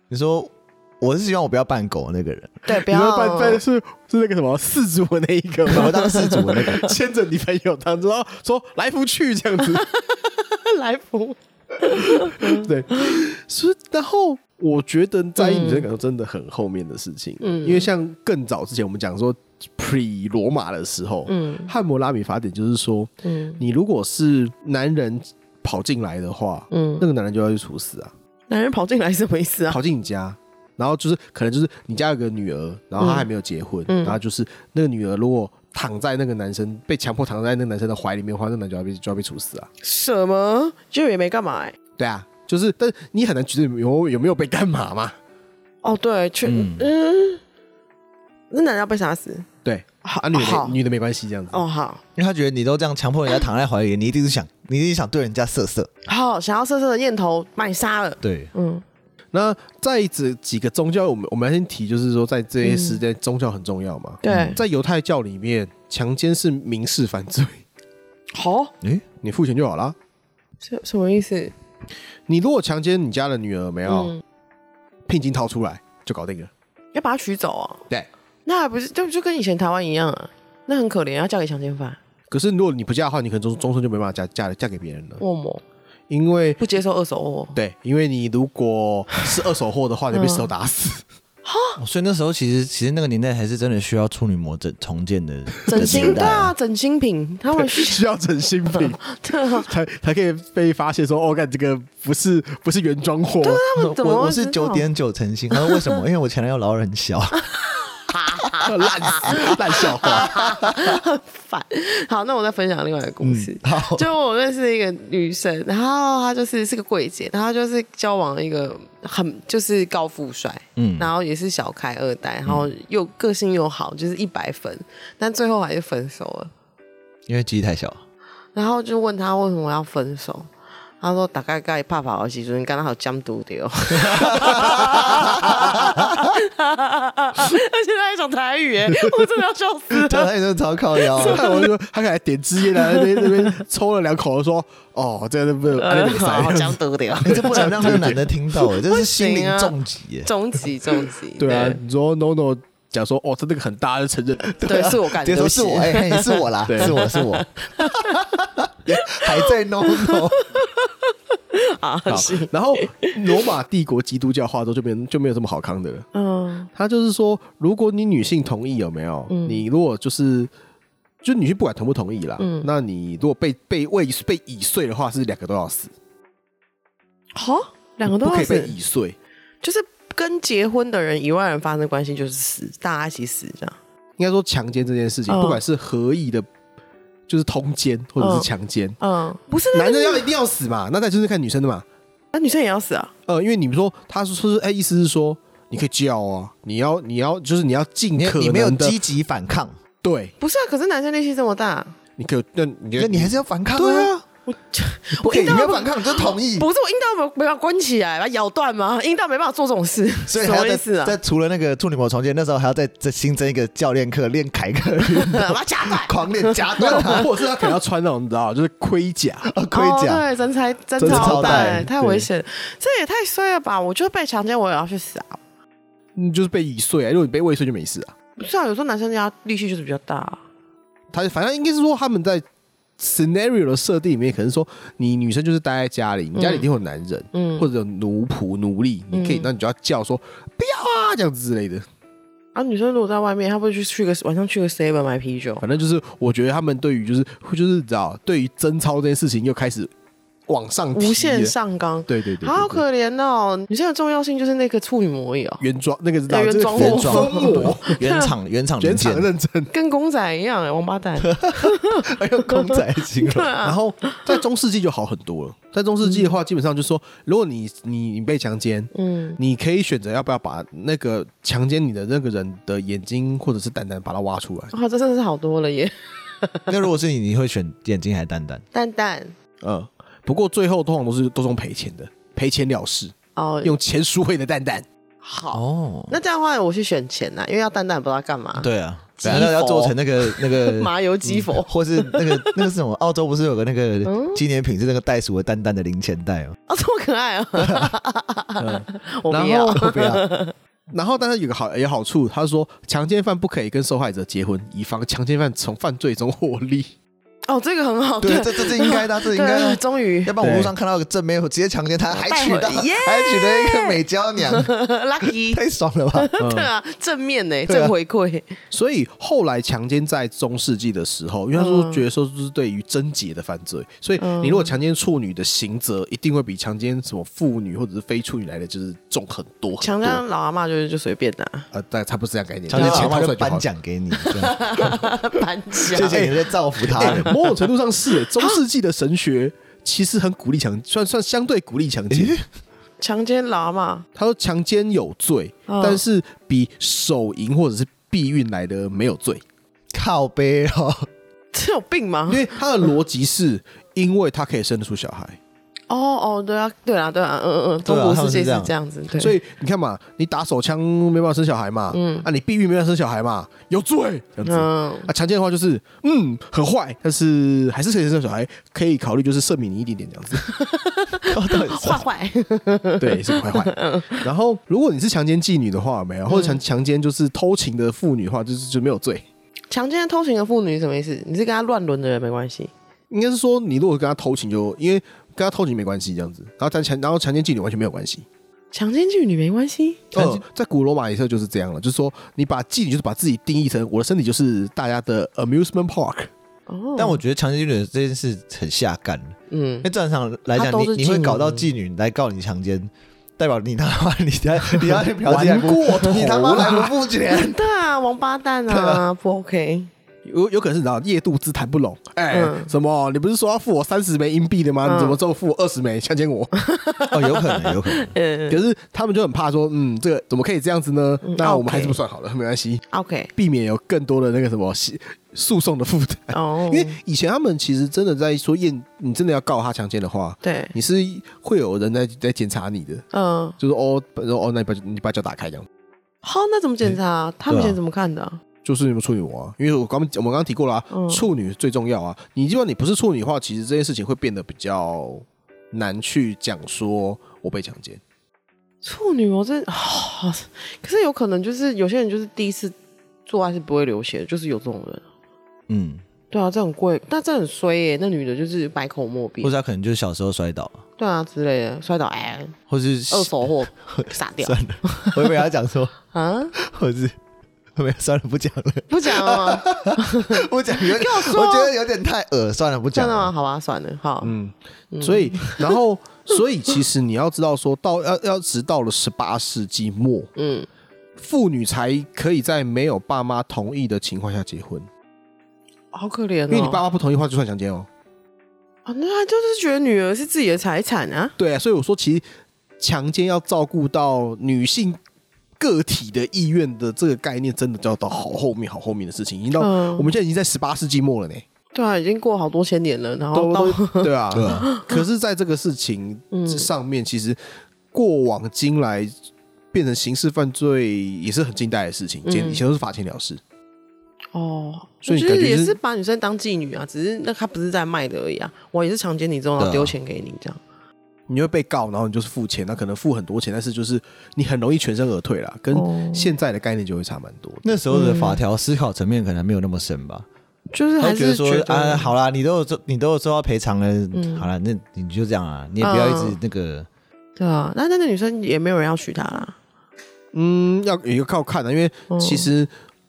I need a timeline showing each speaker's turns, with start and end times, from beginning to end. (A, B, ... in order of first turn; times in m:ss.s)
0:00.1-0:02.6 A
0:02.7-0:03.6 B
0:02.8-0:09.9 C
0:05.7-0:06.9 A
0:05.8-0:06.8 B
0:09.7-0:13.2 B
0:11.8-0:28.1 C
0:15.4-0:15.8 B
0:17.4-0:17.9 B
0:21.3-0:21.7 B
0:23.2-0:23.6 B
0:26.7-0:27.1 B
0:28.5-0:29.8 B
0:29.7-0:39.7 C
0:33.0-0:33.3 B
0:33.9-0:34.2 B
0:39.8-0:41.8 B
0:42.0-0:45.2 C
0:45.8-0:47.4 B
0:46.4-0:46.9 A
0:48.5-0:49.5 B
0:49.6-0:51.6 C
0:50.0-0:50.8 B
0:51.5-0:52.0 B
0:52.2-0:55.9 A
0:56.1-0:58.8 B
0:58.2-0:58.5 A
0:59.3-1:07.6 C
1:02.6-1:03.0 B
1:04.2-1:04.6 B
1:04.3-1:04.6 A
1:08.3-1:08.7 B
1:09.2-1:10.0 C
1:10.6-1:11.5 B
1:12.3-1:14.1 C
1:13.9-1:14.2 B
1:15.1-1:16.5 C
1:16.9-1:17.8 B
1:18.5-1:22.0 B
1:22.3-1:25.2 C
1:25.2-1:25.6 B
1:26.1-1:26.6 C
1:26.6-1:27.6 B
1:27.6-1:31.0 C
1:30.1-1:30.5 B
1:31.4-1:31.8 B
1:31.8-1:36.5 A
1:35.7-1:38.0 B
1:35.7-1:36.2 C
1:37.5-1:43.7 C
1:38.7-1:39.7 B
1:43.4-1:44.9 B
1:43.8-1:47.5 A
1:45.5-1:46.0 B
1:47.6-2:06.5 B
1:48.4-1:49.5 A
1:48.6-1:50.4 C
1:50.0-1:51.0 A
1:53.2-1:54.0 A
2:00.8-2:01.1 A
2:07.3-2:08.0 A
2:08.6-2:10.5 B
2:11.0-2:20.3 B
2:13.9-2:16.3 A
2:18.9-2:19.3 C
2:19.9-2:21.4 A
2:21.0-2:21.7 B
2:21.2-2:28.2 C
2:22.7-2:23.6 B
2:25.8-2:31.8 B
2:27.2-2:30.3 A
2:31.4-2:34.6 C
2:34.5-2:40.4 A
2:34.6-2:38.3 B
2:36.7-2:37.0 C
2:39.1-2:43.5 B
2:42.1-2:46.1 C
2:46.1-2:46.7 B
2:46.8-2:50.5 C
2:49.3-2:49.6 B
2:51.2-2:55.9 C
2:52.4-2:52.7 B
2:57.4-2:58.8 B
2:58.1-2:59.2 C
2:59.6-3:03.8 B
3:04.2-3:06.5 C
3:05.3-3:05.6 B
3:07.3-3:09.0 C
3:08.2-3:08.5 B
3:09.0-3:10.3 B
3:09.7-3:11.8 C
3:12.3-3:13.1 B
3:13.3-3:19.0 C
3:18.2-3:19.7 A
3:20.0-3:20.4 C
3:20.4-3:22.0 B
3:22.2-3:24.2 C
3:23.0-3:24.1 A
3:24.5-3:31.2 B
3:25.2-3:26.7 A
3:30.3-3:37.3 A
3:35.1-3:37.7 B
3:36.8-3:39.5 C
3:39.4-3:40.2 A
3:39.7-3:45.4 B
3:41.0-3:42.3 C
3:41.0-3:41.9 A
3:46.2-3:48.1 C
3:48.4-3:50.4 B
3:51.1-3:52.4 C
3:53.0-4:01.9 C
3:56.4-3:56.7 B
3:57.3-3:57.7 B
3:59.1-3:59.5 B
4:02.6-4:05.6 B
4:05.6-4:09.9 C
4:10.5-4:11.5 C
4:10.9-4:15.6 B
4:12.1-4:12.8 C
4:15.6-4:18.0 C
4:16.3-4:18.3 B
4:16.8-4:19.3 A
4:18.8-4:19.7 C
4:19.7-4:24.4 B
4:21.2-4:23.5 A
4:23.6-4:34.7 C
4:28.9-4:29.4 B
4:34.7-4:36.7 B
4:36.7-4:38.6 A
4:38.7-4:39.4 B
4:39.6-4:44.9 C
4:43.4-4:43.8 B
4:45.2-4:52.7 B
4:45.5-4:46.2 A
4:48.6-4:56.6 A
4:49.2-4:49.5 C
4:54.1-4:54.4 B
4:56.7-5:00.5 B
4:57.6-4:57.9 A
4:58.6-4:59.7 C
4:59.3-5:00.2 A
5:00.9-5:06.9 C
5:07.5-5:10.4 B
5:08.2-5:14.7 A
5:10.4-5:10.7 C
5:12.1-5:15.6 B
5:15.2-5:16.3 A
5:16.2-5:18.5 B
5:16.4-5:16.7 C
5:17.7-5:17.9 A
5:18.7-5:30.2 C
5:21.6-5:22.0 B
5:24.2-5:24.7 B
5:29.8-5:31.7 B
5:31.7-5:33.7 C
5:32.7-5:35.0 A
5:32.8-5:33.1 B
5:34.2-5:36.3 B
5:35.9-5:42.4 C
5:35.9-5:37.3 A
5:37.0-5:37.4 B
5:42.1-5:42.4 A
5:43.0-5:44.1 B
5:44.2-5:49.4 C
5:45.7-5:46.0 B
5:49.9-5:51.1 A
5:51.5-5:52.6 B
5:52.3-5:55.4 C
5:55.9-5:59.4 B
5:57.8-5:58.7 A
5:59.2-6:10.5 C
6:01.9-6:02.3 B
6:04.4-6:05.1 B
6:10.4-6:14.3 B
6:11.3-6:12.1 A
6:13.0-6:19.3 C
6:16.3-6:16.6 B
6:19.7-6:22.7 B
6:23.1-6:28.3 C
6:28.7-6:30.1 B
6:30.1-6:36.3 C
6:36.7-6:37.2 B
6:37.0-6:47.6 A
6:39.5-6:39.9 B
6:40.6-6:41.7 B
6:44.8-6:46.9 C
6:47.3-6:49.9 B
6:48.7-6:49.0 A
6:50.2-6:56.5 C
6:52.3-6:52.7 B
6:54.8-6:55.2 B
6:56.6-6:58.6 B
6:57.1-6:58.1 A
6:58.5-7:02.8 C
7:01.2-7:02.0 B
7:02.9-7:03.3 B
7:03.4-7:13.1 C
7:06.3-7:07.0 B
7:10.4-7:10.7 B
7:13.1-7:13.6 B
7:13.6-7:15.7 C
7:16.2-7:18.4 B
7:17.5-7:17.8 A
7:18.6-7:28.0 C
7:20.9-7:21.2 B
7:28.8-7:32.8 B
7:33.3-7:35.0 B
7:35.7-7:36.0 A
7:36.3-7:39.5 B
7:39.4-7:40.8 A
7:41.0-7:42.6 B
7:42.7-7:46.0 A
7:43.1-7:45.4 B
7:46.1-7:46.5 B
7:46.6-7:47.2 A
7:47.8-7:53.3 A
7:48.9-7:51.7 B
7:52.9-7:54.4 B
7:54.2-8:00.3 C
7:54.9-7:55.8 B
8:00.4-8:00.7 B
8:01.2-8:04.9 C
8:05.9-8:06.8 B
8:06.5-8:07.9 C
8:08.9-8:11.4 B
8:11.4-8:12.2 C
8:12.8-8:15.0 C
8:15.6-8:21.4 C
8:19.6-8:20.1 B
8:21.7-8:25.0 B
8:23.3-8:27.4 C
8:24.3-8:24.7 A
8:26.3-8:26.7 B
8:27.9-8:29.1 C
8:29.7-8:33.4 C
8:32.2-8:32.6 B
8:34.3-8:40.6 B
8:35.0-8:35.8 C
8:39.6-8:39.9 A
8:41.3-8:47.6 C
8:45.7-8:46.4 B
8:47.6-8:50.3 A
8:47.9-8:48.4 B
8:50.7-8:52.1 B
8:51.0-8:56.9 A
8:54.1-8:54.5 B
8:55.8-8:56.4 B
8:57.4-8:59.6 B
9:00.3-9:02.7 C
9:02.1-9:02.5 B